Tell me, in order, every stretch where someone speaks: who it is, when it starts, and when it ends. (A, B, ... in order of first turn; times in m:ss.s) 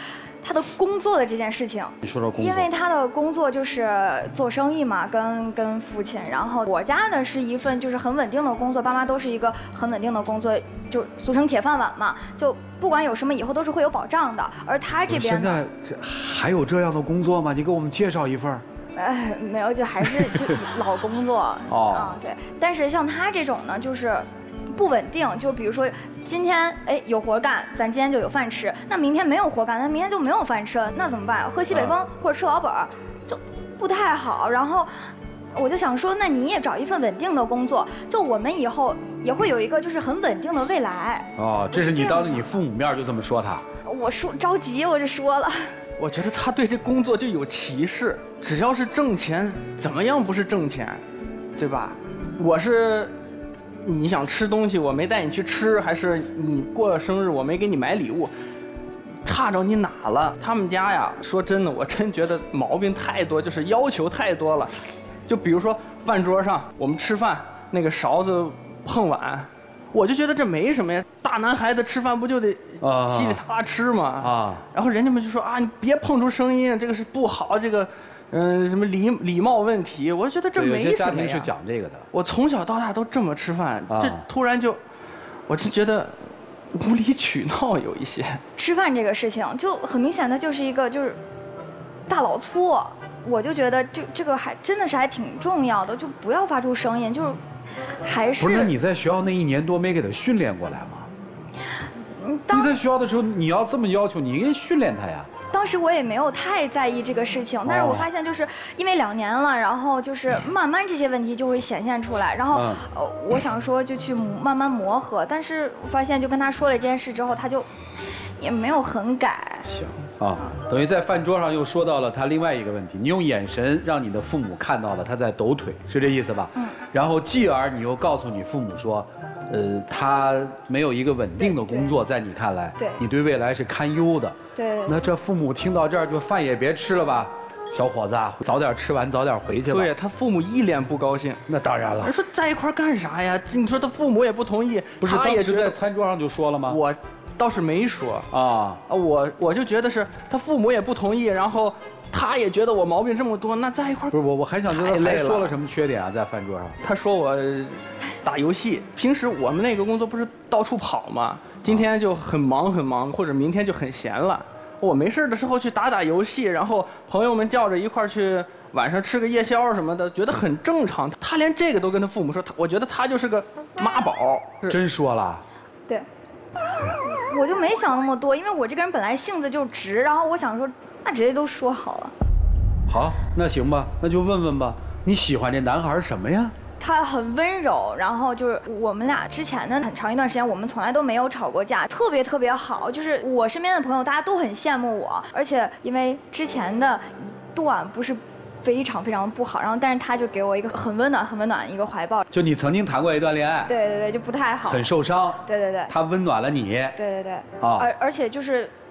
0:00.4-0:15.6 A
0:02.0-0:02.7 B
0:15.1-0:18.6 B
0:19.0-0:34.9 A
0:21.7-0:22.2 B
0:35.5-0:42.5 A
0:41.4-0:43.6 B
0:43.8-0:45.7 A
0:46.0-0:51.0 C
0:51.6-0:53.1 C
0:53.8-0:58.3 C
0:59.2-1:21.5 C
1:12.8-1:13.4 B
1:14.2-1:14.7 B
1:20.6-1:22.1 B
1:22.1-1:24.8 C
1:23.9-1:24.3 B
1:25.5-1:28.4 C
1:28.6-1:31.2 A
1:32.1-1:37.4 A
1:38.0-1:38.7 A
1:38.4-1:41.1 B
1:42.2-1:42.7 A
1:42.5-1:45.3 B
1:45.5-1:57.7 A
1:47.7-1:48.1 B
1:52.5-1:52.8 B
1:58.4-1:59.7 A
1:59.7-2:19.9 B
2:11.4-2:11.9 A
2:14.6-2:15.0 A
2:19.7-2:21.5 C
2:21.5-2:22.2 B
2:22.0-2:25.8 C
2:25.0-2:26.8 B
2:26.7-2:28.3 C
2:28.3-2:28.8 B
2:28.9-2:35.6 C
2:34.1-2:36.8 B
2:36.8-2:54.8 C
2:54.7-2:55.4 B
2:56.8-3:02.1 A
3:02.9-3:06.6 B
3:06.8-3:22.2 A
3:22.3-3:23.7 B
3:23.7-3:24.9 A
3:24.6-3:27.0 B
3:25.4-3:25.9 A
3:27.0-3:28.7 A
3:27.6-3:27.9 B